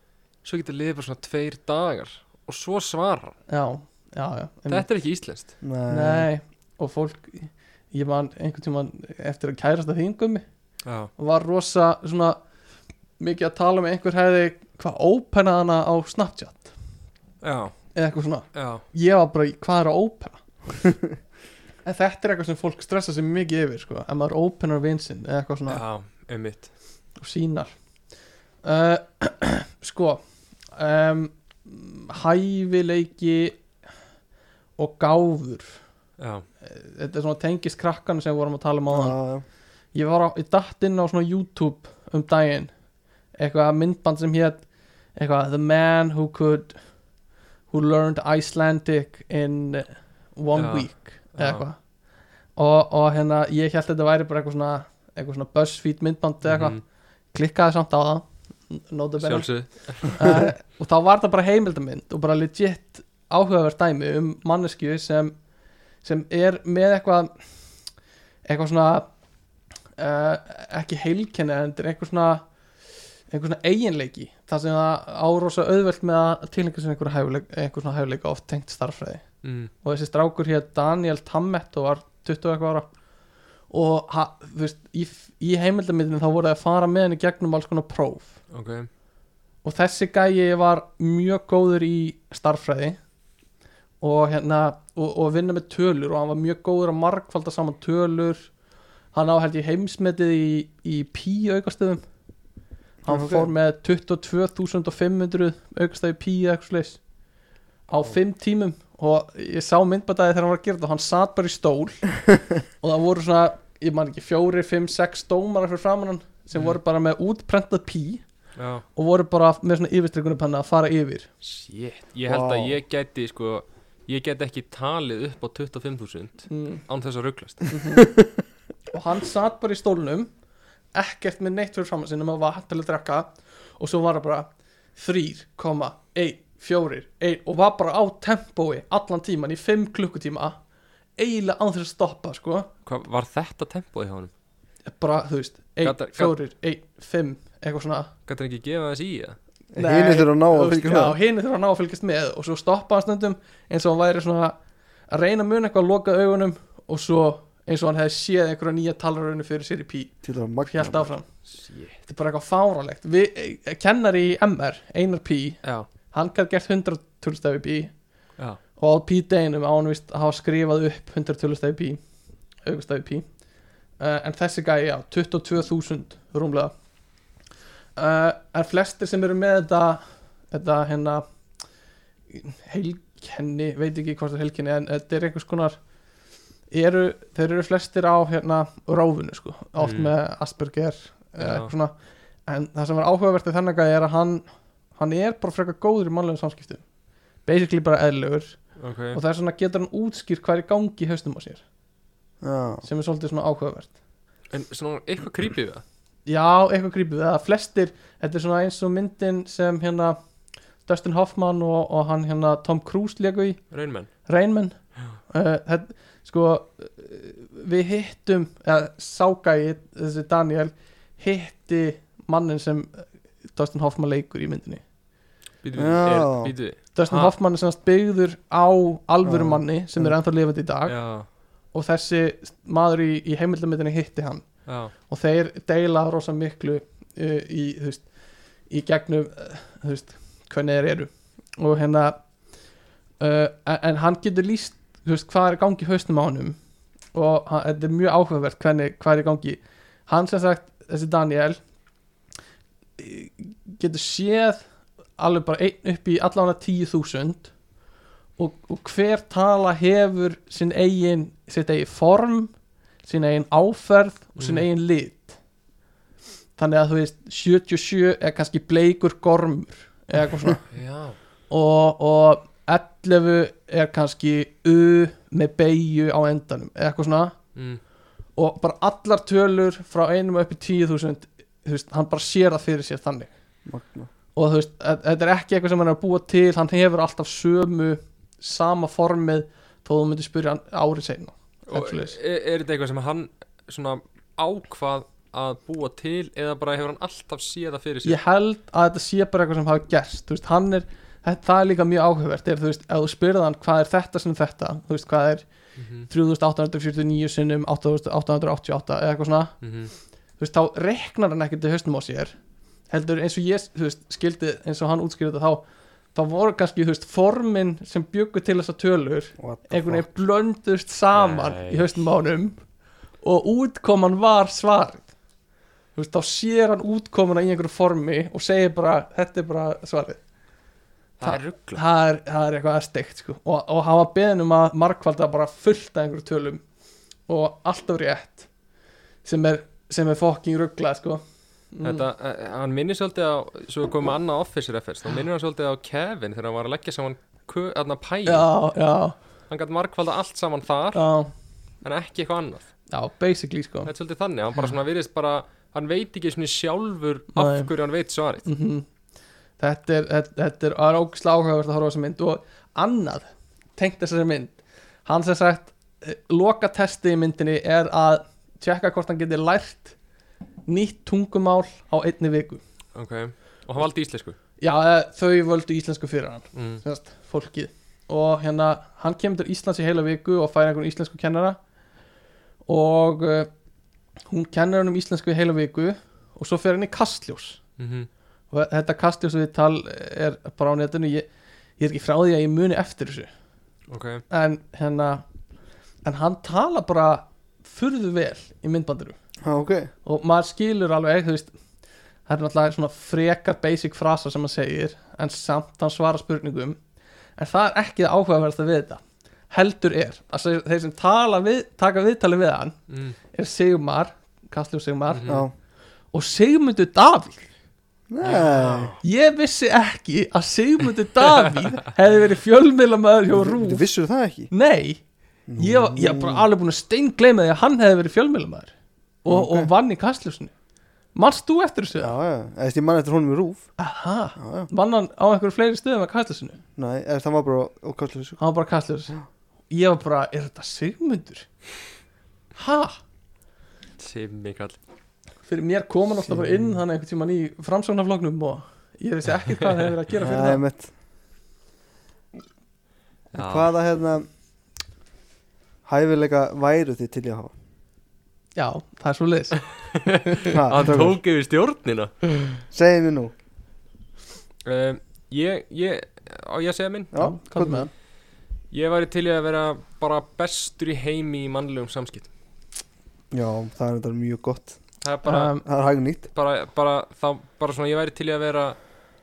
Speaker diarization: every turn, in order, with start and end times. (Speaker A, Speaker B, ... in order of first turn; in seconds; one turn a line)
Speaker A: 0.4-3.4
Speaker B: 3.5-4.8
Speaker A: 4.7-5.5
Speaker C: 5.6-6.3
Speaker B: 5.9-10.4
Speaker A: 10.8-11.1
Speaker B: 11.2-12.4
Speaker B: 13.2-16.7
Speaker A: 17.4-17.7
Speaker B: 17.9-20.4
Speaker A: 18.5-18.8
Speaker B: 21.8-25.8
Speaker A: 25.7-26.7
Speaker B: 27.2-27.7
Speaker B: 28.6-30.2
Speaker B: 30.7-33.6
Speaker B: 34.8-35.8
Speaker A: 36.2-36.4
Speaker B: 36.6-39.2
Speaker C: 38.9-39.4
Speaker B: 39.9-42.7
Speaker B: 43.4-44.6
Speaker B: 45.1-46.8
Speaker B: 47.7-51.8
Speaker A: 50.5-51.6
Speaker B: 52.5-56.8
Speaker A: 56.4-56.8
Speaker B: 57.3-65.3
Speaker A: 59.2-60.2
Speaker B: 66.0-67.4
Speaker B: 68.4-69.1
Speaker B: 70.0-72.4
Speaker B: 73.3-79.2
Speaker A: 79.4-79.7
Speaker B: 79.8-82.9
Speaker B: 83.7-88.3
Speaker A: 88.5-88.9
Speaker B: 89.6-93.0
Speaker B: 94.0-98.5
Speaker B: 99.1-102.0
Speaker C: 103.0-103.5
Speaker B: 103.0-107.0
Speaker B: 107.9-112.1
Speaker B: 112.8-118.2
Speaker A: 118.5-118.8
Speaker B: 118.9-121.3
Speaker A: 121.4-127.7
Speaker C: 122.3-122.8
Speaker B: 126.5-126.8
Speaker B: 127.7-128.1
Speaker B: 128.9-130.3
Speaker B: 130.9-140.6
Speaker B: 141.2-142.7
Speaker A: 142.8-144.3
Speaker B: 144.9-148.1
Speaker A: 145.8-146.3
Speaker A: 148.3-149.3
Speaker C: 149.7-151.2
Speaker B: 149.8-154.5
Speaker B: 155.1-161.2
Speaker C: 160.2-161.1
Speaker A: 161.5-162.0
Speaker B: 162.1-165.6
Speaker B: 166.1-167.9
Speaker B: 168.8-172.0
Speaker B: 172.7-173.3
Speaker B: 174.0-176.7
Speaker B: 177.9-181.2
Speaker B: 182.3-185.8
Speaker B: 186.7-191.9
Speaker A: 189.8-190.1
Speaker A: 191.4-191.7
Speaker B: 192.4-194.4
Speaker B: 194.9-196.8
Speaker B: 197.4-198.6
Speaker A: 198.8-199.2
Speaker B: 199.1-201.6
Speaker C: 202.4-202.8
Speaker B: 202.8-203.9
Speaker A: 204.5-205.8
Speaker B: 206.2-210.2
Speaker B: 210.8-213.6
Speaker A: 213.7-214.1
Speaker B: 214.3-214.8
Speaker B: 215.3-224.8
Speaker A: 225.6-227.3
Speaker C: 225.8-226.5
Speaker B: 226.9-230.9
Speaker C: 229.2-230.1
Speaker A: 230.9-231.3
Speaker B: 231.7-234.4
Speaker A: 234.7-234.9
Speaker B: 235.1-238.1
Speaker B: 238.7-242.2
Speaker B: 243.2-246.6
Speaker B: 247.1-251.6
Speaker B: 253.0-254.6
Speaker B: 255.2-257.5
Speaker B: 258.4-262.5
Speaker B: 263.0-265.4
Speaker A: 264.4-264.7
Speaker B: 266.6-270.6
Speaker A: 270.7-271.1
Speaker B: 271.5-277.4
Speaker A: 277.5-277.8
Speaker B: 278.4-283.3
Speaker C: 283.7-284.1
Speaker B: 284.4-292.2
Speaker A: 291.7-298.2
Speaker B: 298.0-305.4
Speaker A: 305.8-306.1
Speaker B: 306.1-309.5
Speaker A: 309.6-309.9
Speaker B: 310.4-312.3
Speaker B: 312.9-322.6
Speaker C: 319.4-320.0
Speaker A: 321.1-321.9
Speaker B: 323.2-325.1
Speaker B: 325.9-330.2
Speaker A: 331.2-331.8
Speaker B: 331.2-336.6
Speaker B: 337.3-338.5
Speaker B: 339.2-341.2
Speaker B: 341.7-342.1
Speaker A: 341.8-348.5
Speaker B: 348.2-349.1
Speaker A: 349.5-351.0
Speaker B: 350.9-351.3
Speaker A: 351.8-352.7
Speaker B: 352.9-353.9
Speaker A: 353.9-358.5
Speaker B: 357.3-357.7
Speaker B: 358.4-358.9
Speaker B: 359.6-363.2
Speaker B: 363.8-369.9
Speaker B: 370.7-372.6
Speaker A: 372.9-374.4
Speaker B: 374.6-381.6
Speaker A: 376.5-376.8
Speaker B: 382.7-383.5
Speaker B: 384.3-387.6
Speaker A: 387.8-388.1
Speaker B: 388.5-391.3
Speaker B: 391.8-393.3
Speaker A: 393.9-394.2
Speaker B: 394.3-395.2
Speaker B: 396.0-399.2
Speaker C: 399.4-399.9
Speaker B: 400.0-401.5
Speaker B: 402.3-406.8
Speaker B: 407.4-412.8
Speaker A: 412.9-413.1
Speaker B: 413.3-415.4
Speaker A: 415.1-415.4
Speaker C: 415.3-415.5
Speaker B: 416.1-417.5
Speaker C: 418.1-418.9
Speaker A: 418.2-419.0
Speaker B: 419.0-423.9
Speaker C: 423.3-424.5
Speaker B: 424.5-425.0
Speaker C: 425.5-426.4
Speaker B: 425.6-428.7
Speaker B: 429.2-430.5
Speaker C: 429.2-429.7
Speaker B: 431.1-432.1
Speaker C: 432.0-433.7
Speaker B: 433.8-436.6
Speaker C: 434.4-434.7
Speaker C: 436.8-438.4
Speaker B: 438.4-439.1
Speaker B: 439.7-441.5
Speaker B: 442.5-443.0
Speaker A: 444.0-444.8
Speaker B: 445.4-450.6
Speaker C: 446.2-446.8
Speaker C: 450.2-450.9
Speaker C: 453.3-454.3
Speaker A: 453.3-453.7
Speaker C: 455.8-457.5
Speaker B: 458.6-459.6
Speaker A: 459.9-462.5
Speaker C: 460.5-461.2
Speaker C: 462.7-463.3
Speaker A: 464.6-467.1
Speaker C: 467.1-467.9
Speaker B: 467.1-467.9
Speaker A: 468.7-472.3
Speaker C: 473.3-474.8
Speaker A: 475.0-475.6
Speaker B: 475.2-475.6
Speaker C: 475.6-476.3
Speaker A: 476.3-478.8